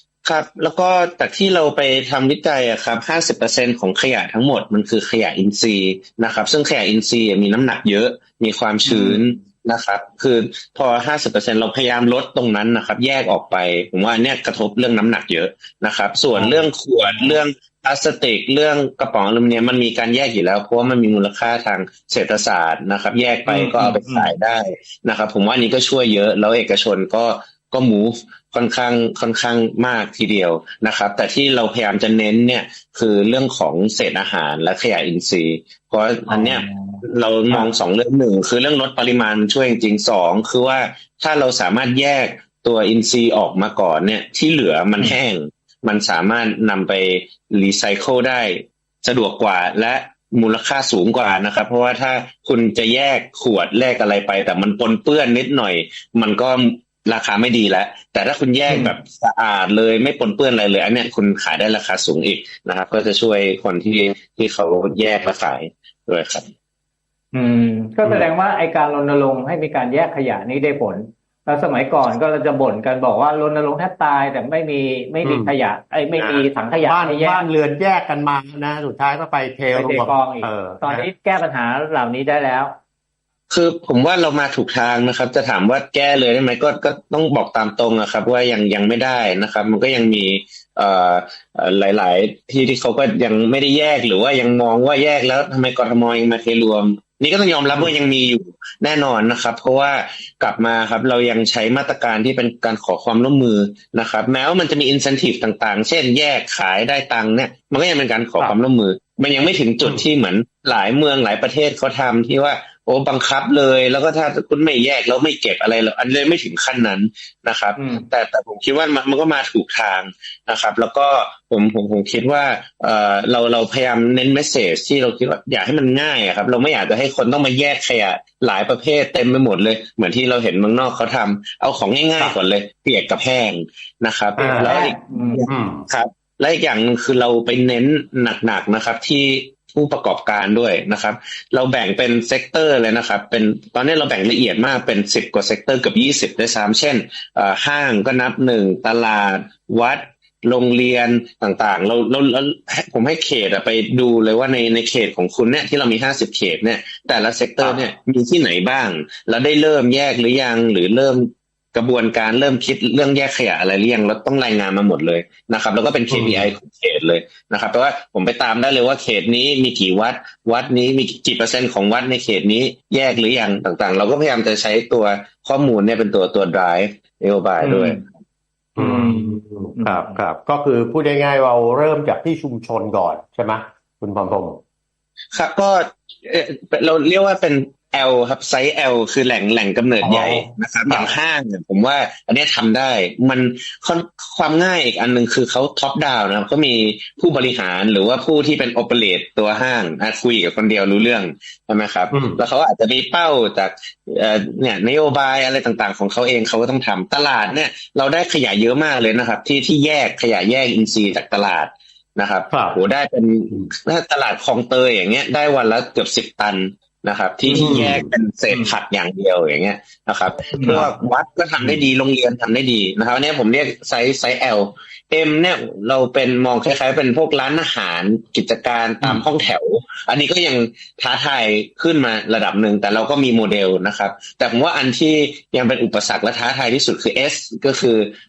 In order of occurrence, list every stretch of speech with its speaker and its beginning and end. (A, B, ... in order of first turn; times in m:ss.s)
0:00.2-1:06.4 A
0:08.8-0:09.2 B
0:16.3-0:17.4 B
0:23.4-0:24.3 B
0:36.3-0:37.7 B
0:58.7-0:58.9 B
1:07.3-1:17.4 B
1:15.2-1:15.5 C
1:16.1-1:21.1 C
1:19.7-1:22.7 B
1:23.5-2:58.0 A
1:49.8-1:50.0 C
1:57.8-1:58.0 B
2:14.4-2:14.8 C
2:14.6-2:15.5 B
2:15.5-2:15.8 C
2:37.6-2:37.9 C
2:46.1-2:46.5 C
2:57.6-2:58.0 B
2:58.8-3:04.6 C
2:58.8-3:00.2 B
3:05.3-3:58.1 A
3:10.0-3:11.2 C
3:22.1-3:22.4 C
3:32.5-3:32.8 C
3:37.5-3:38.0 B
3:37.5-3:38.1 C
3:40.5-3:40.8 B
3:40.5-3:40.9 C